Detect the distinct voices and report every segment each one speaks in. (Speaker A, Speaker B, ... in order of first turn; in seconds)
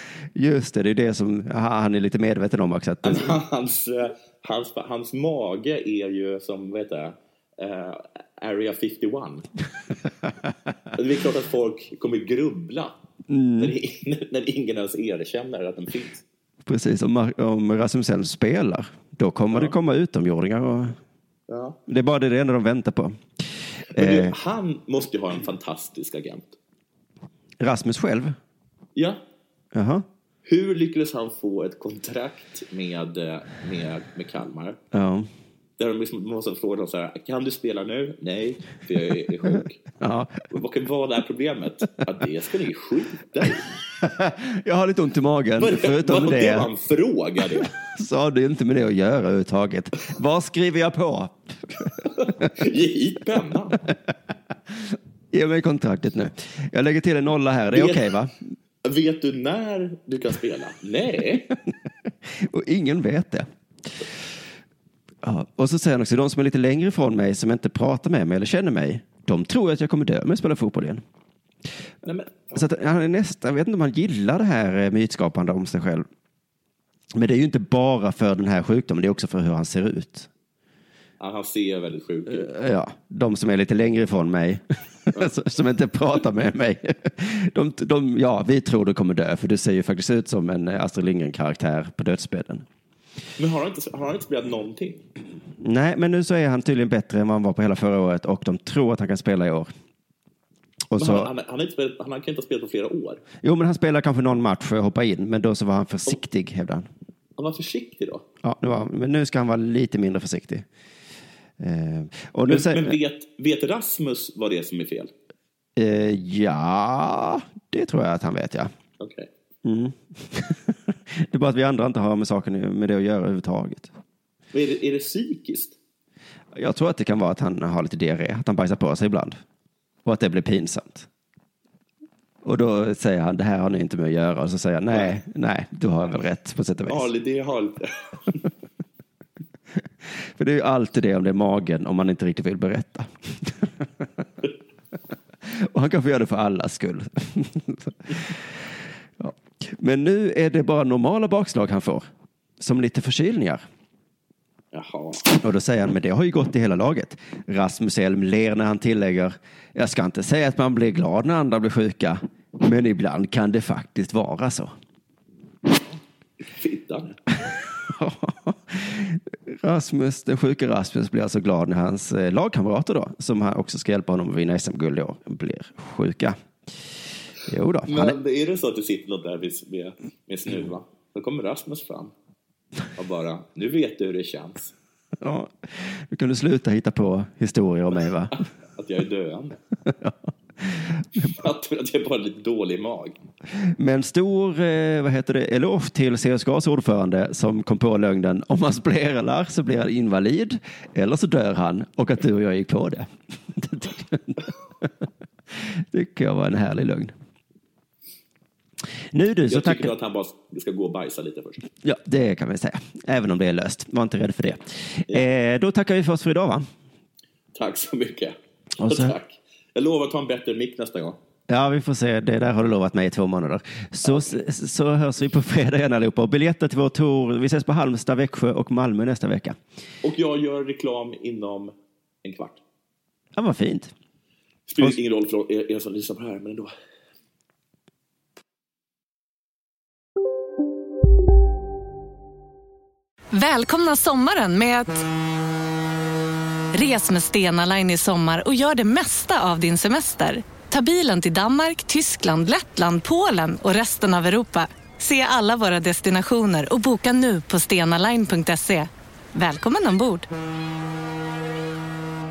Speaker A: 0.3-3.4, 13.3-13.7, 16.6-21.0, 21.9-23.2, 23.9-24.3, 27.6-28.4, 29.7-30.0, 34.9-35.3, 40.0-40.5, 44.0-46.7, 47.5-52.4, 53.9-54.1, 54.7-58.3, 62.3-63.5, 65.2-71.0, 72.5-76.0, 77.1-80.3, 82.3-92.6, 95.6-99.7, 100.9-101.3, 103.4-106.9, 108.4-110.7, 111.6-112.9, 115.8-118.7, 119.6-123.9, 126.5-129.4, 130.0-131.1, 132.4-137.1, 140.2-144.0, 145.4-148.4, 149.2-152.1, 152.6-153.6, 155.3-164.7, 167.8-176.4, 177.5-178.2, 185.2-188.4, 189.8-191.3, 193.6-205.0, 205.5-207.1, 209.1-209.9, 211.8-216.7, 218.8-219.1, 221.5-229.6, 233.3-233.9
Speaker B: 3.0-9.4, 10.9-12.9, 13.6-16.2, 21.5-21.8, 23.9-26.5, 30.4-34.8, 35.8-39.8, 40.5-43.6, 45.6-47.7, 52.0-53.8, 57.7-58.1, 58.8-61.5, 72.0-72.7, 81.2-82.5, 93.4-95.0, 101.0-103.2, 107.4-108.2, 112.5-115.1, 119.0-119.3, 124.5-125.8, 136.9-138.5, 154.7-155.3, 166.4-167.2, 177.9-182.1, 182.9-184.7, 188.3-189.6, 191.2-193.2, 209.5-211.6, 217.5-221.2, 224.0-224.3, 230.0-231.7, 232.2-232.6, 234.7-236.7
Speaker C: 243.3-244.9, 246.7-260.3